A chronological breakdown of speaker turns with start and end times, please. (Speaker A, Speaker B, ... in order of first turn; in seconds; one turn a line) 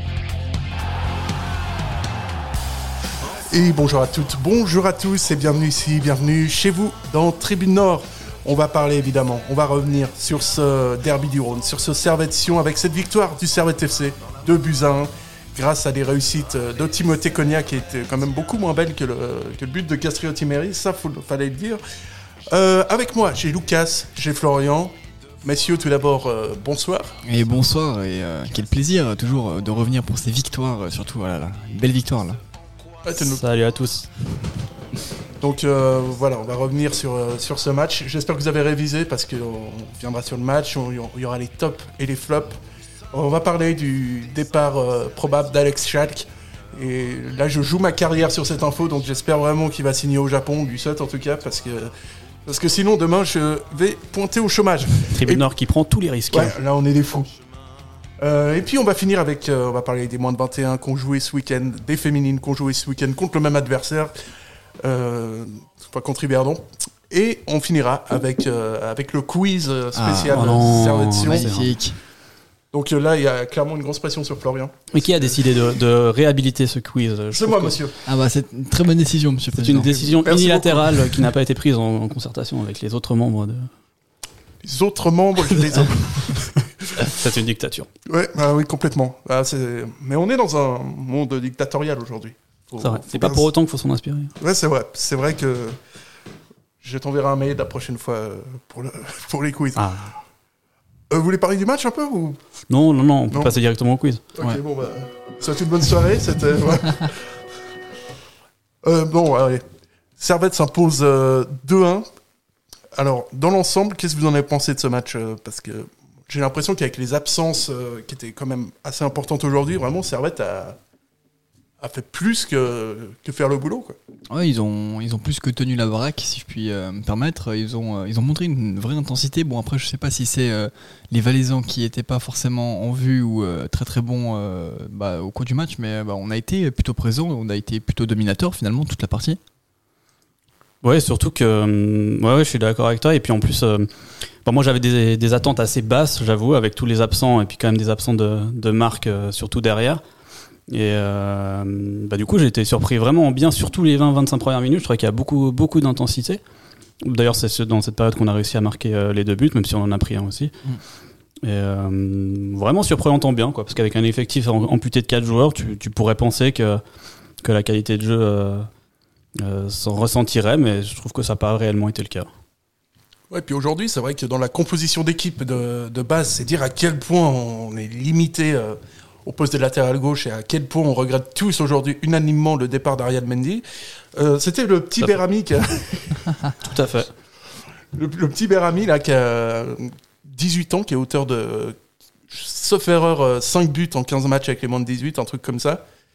Speaker A: 3.5-21.8
Speaker A: 22.5-27.1
Speaker B: 27.2-32.4
Speaker A: 33.0-33.4
Speaker C: 33.2-34.1
Speaker A: 35.4-42.6
Speaker A: 43.1-51.9
Speaker A: 52.5-55.5
Speaker C: 55.1-56.5
Speaker A: 56.3-57.3
Speaker A: 58.2-64.1
Speaker A: 64.8-71.6
Speaker B: 69.9-72.0
Speaker C: 70.3-71.7
Speaker A: 72.7-75.3
Speaker C: 74.9-77.8
Speaker A: 77.3-78.0
Speaker B: 78.0-80.2
Speaker C: 79.5-83.7
Speaker A: 80.2-81.0
Speaker A: 84.6-87.0
Speaker C: 87.0-87.9
Speaker A: 88.1-93.5
Speaker C: 92.8-94.3
Speaker A: 94.4-95.8
Speaker A: 96.8-99.8
Speaker C: 99.8-100.1
Speaker A: 101.1-102.4
Speaker C: 102.7-104.2
Speaker A: 104.3-107.1
Speaker A: 108.8-109.6
Speaker A: 110.2-112.0
Speaker A: 113.0-120.8
Speaker A: 121.8-124.0
Speaker B: 124.3-139.4
Speaker C: 140.8-143.9
Speaker C: 144.4-150.0
Speaker C: 150.7-156.4
Speaker C: 157.0-160.5
Speaker C: 161.4-166.8
Speaker C: 167.4-168.7
Speaker C: 169.4-172.3
Speaker A: 173.3-186.2
Speaker C: 186.6-187.1
Speaker A: 187.9-191.8
Speaker A: 192.3-195.8